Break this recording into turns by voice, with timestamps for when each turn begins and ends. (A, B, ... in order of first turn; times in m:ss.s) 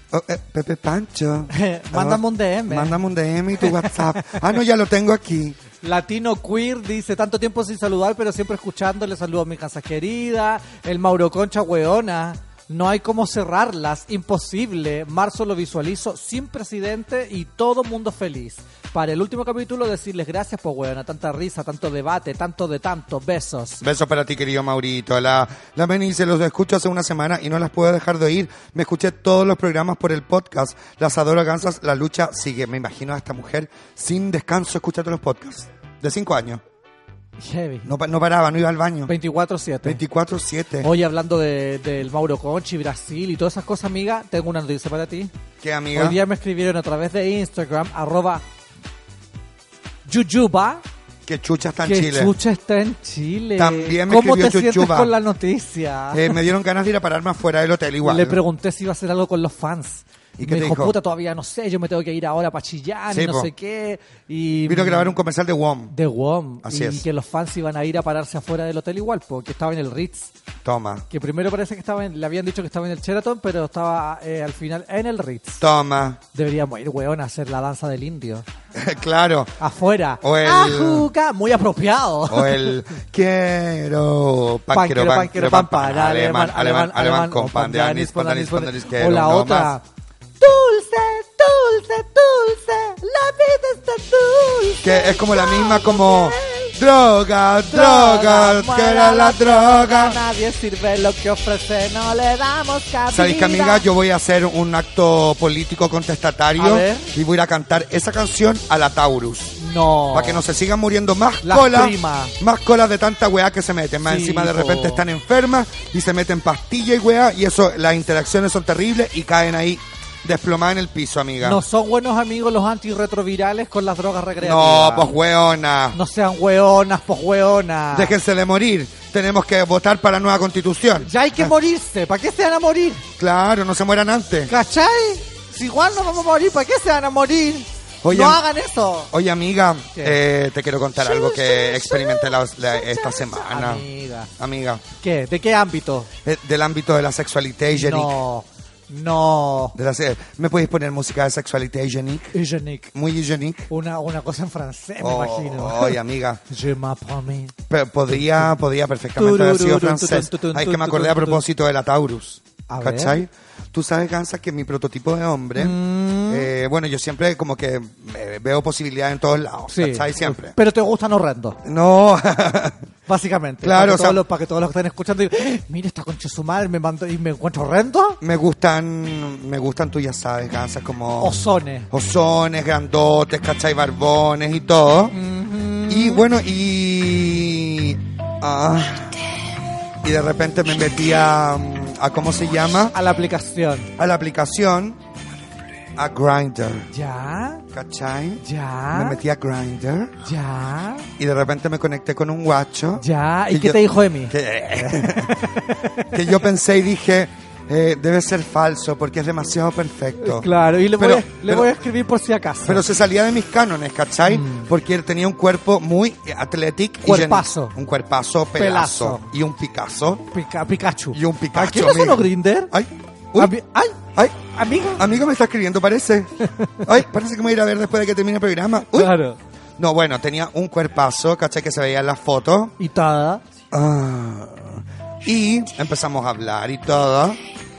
0:00.1-0:05.6 A
0:01.5-0:03.0 B
0:03.6-0:04.4 B
0:05.8-0:23.8 B
0:23.8-0:36.6 A
0:37.4-0:37.9 B
0:37.8-0:39.1 A
0:39.1-0:40.0 B
0:39.8-0:40.9 A
0:40.8-0:45.3 B
0:45.6-0:46.2 A
0:45.9-0:48.4 B
0:50.0-0:50.8 B
0:51.2-0:52.3 A
0:51.8-0:56.4 B
0:53.6-0:55.1 A
0:56.1-0:58.4 A
0:58.0-1:05.2 B
1:00.4-1:00.9 A
1:03.1-1:03.5 A
1:04.6-1:05.9 A
1:05.9-1:10.3 B
1:06.6-1:07.0 A
1:10.6-1:11.0 A
1:11.1-1:15.6 B
1:15.6-1:16.2 A
1:16.3-1:18.4 B
1:18.7-1:19.5 A
1:19.6-1:22.7 B
1:20.2-1:21.1 A
1:22.3-1:29.7 A
1:24.7-1:29.8 B
1:30.4-1:36.7 B
1:34.8-1:40.2 A
1:37.6-1:43.8 B
1:43.1-1:49.6 A
1:46.6-1:47.1 B
1:49.6-1:50.4 B
1:50.1-2:01.6 A
1:51.4-1:52.3 B
1:54.0-1:55.0 B
2:01.4-2:05.1 B
2:04.4-2:06.0 A
2:05.9-2:08.2 B
2:07.9-2:11.5 A
2:11.0-2:13.0 B
2:13.2-2:14.5 A
2:14.5-2:19.1 B
2:18.0-2:18.4 A
2:19.1-2:23.8 A
2:21.0-2:24.3 B
2:24.4-2:24.8 A
2:25.0-2:26.1 B
2:26.2-2:28.1 A
2:27.7-2:29.8 B
2:29.7-2:32.3 A
2:32.3-2:32.9 B
2:32.9-2:33.7 A
2:33.7-2:36.0 B
2:35.0-2:36.4 A
2:36.5-2:37.5 B
2:37.7-2:45.8 A
2:38.1-2:38.5 B
2:39.2-2:41.4 B
2:42.7-2:43.2 B
2:45.6-2:46.5 B
2:46.3-2:50.6 A
2:49.7-2:51.6 B
2:51.6-2:52.8 A
2:53.1-2:58.2 B
2:53.6-2:54.2 A
2:58.2-3:01.4 A
3:01.2-3:01.9 B
3:01.9-3:05.1 A
3:05.1-3:06.2 B
3:05.9-3:09.1 A
3:10.0-3:12.9 A
3:12.9-3:13.9 B
3:14.0-3:15.0 A
3:16.0-3:16.9 A
3:16.9-3:17.6 B
3:17.7-3:20.1 A
3:18.4-3:19.2 B
3:20.2-3:21.1 B
3:21.2-3:25.4 A
3:23.0-3:26.3 B
3:26.1-3:31.8 A
3:30.2-3:32.8 B
3:32.6-3:40.2 A
3:34.3-3:34.7 B
3:37.0-3:37.8 B
3:38.6-3:39.3 B
3:40.3-3:42.7 B
3:41.1-3:43.5 A
3:43.4-3:45.0 B
3:45.0-3:46.3 A
3:46.6-3:46.9 B
3:46.8-3:49.1 A
3:48.9-3:49.4 B
3:49.8-3:52.7 A
3:52.8-3:53.4 B
3:53.7-3:57.4 A